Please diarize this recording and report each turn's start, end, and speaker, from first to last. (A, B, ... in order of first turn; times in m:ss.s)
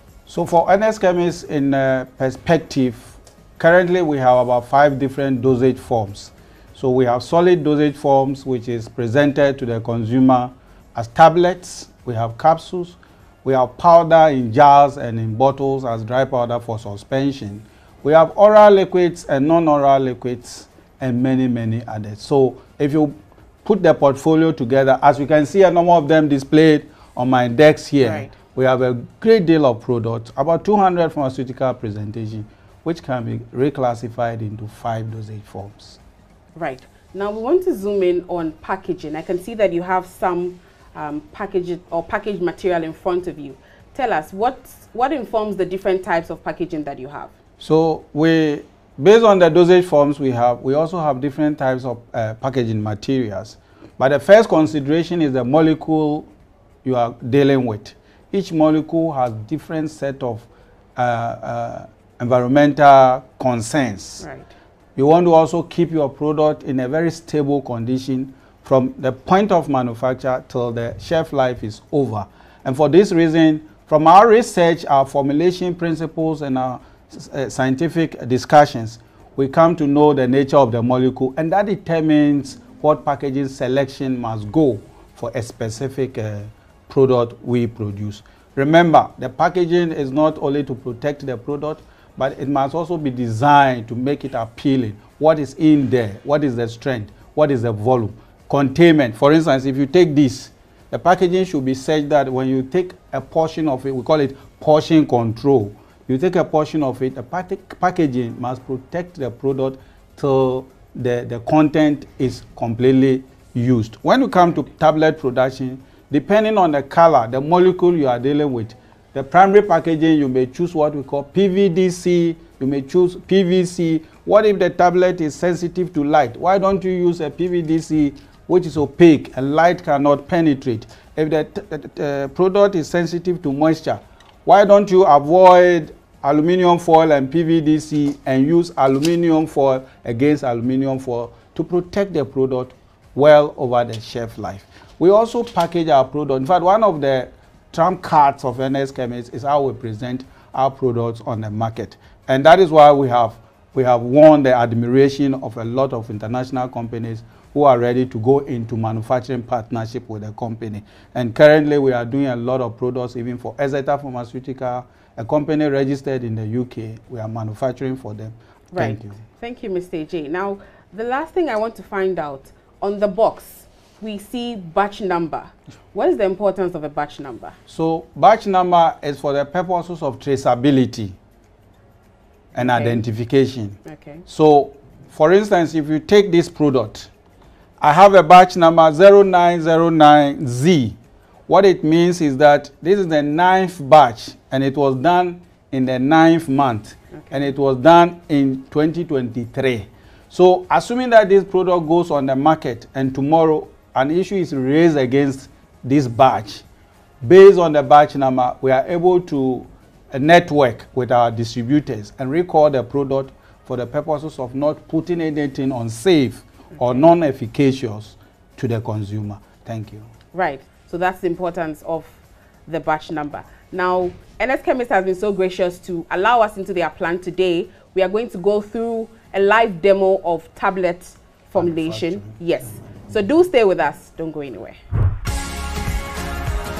0:00.3-0:36.0 A
0:28.0-0:28.3 B
0:36.6-0:47.3 B
0:47.6-0:56.3 A
0:56.8-1:04.2 A
1:04.2-1:04.5 B
1:05.0-2:49.2 A
2:48.7-2:57.6 B
2:57.7-3:01.2 A
3:02.5-3:07.1 A
3:02.6-3:03.0 B
3:03.8-3:04.2 B
3:07.8-3:11.0 A
3:11.5-3:26.6 A
3:17.1-3:17.5 B
3:27.2-3:40.1 A
3:36.8-3:37.0 B
3:40.3-3:54.8 B
3:51.6-3:52.9 A